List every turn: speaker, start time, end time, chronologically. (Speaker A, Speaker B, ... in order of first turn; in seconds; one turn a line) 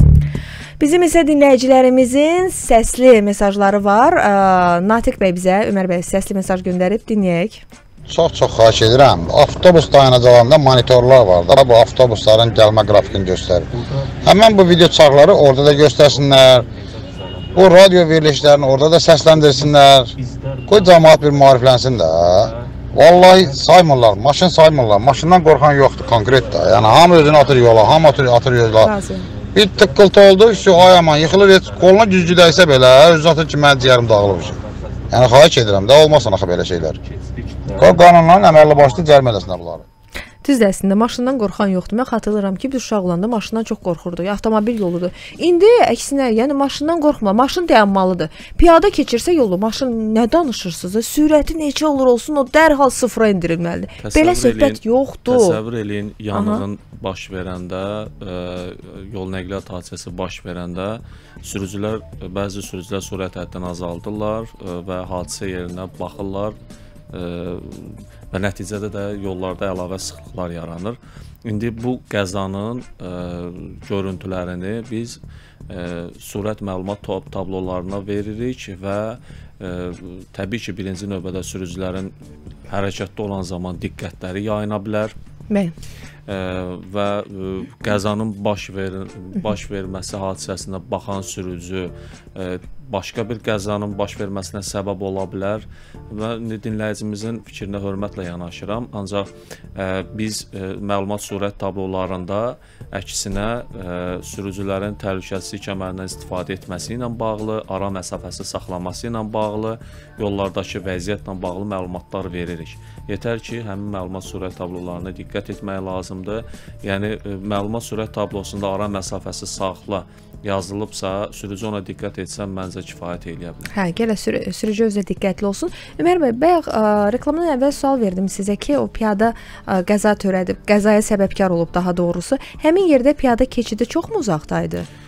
Speaker A: 0.8-7.6
Speaker B: 8.1-13.7
Speaker B: 14.2-16.7
Speaker B: 17.5-20.1
Speaker B: 20.7-28.9
Speaker A: 28.8-29.3
Speaker B: 29.5-34.6
Speaker B: 35.1-37.0
Speaker B: 37.7-39.8
Speaker A: 40.4-55.6
Speaker C: 54.0-66.5
Speaker A: 56.3-56.6
Speaker C: 67.1-82.1
Speaker C: 82.7-85.1
Speaker C: 86.3-123.7
Speaker A: 123.7-134.9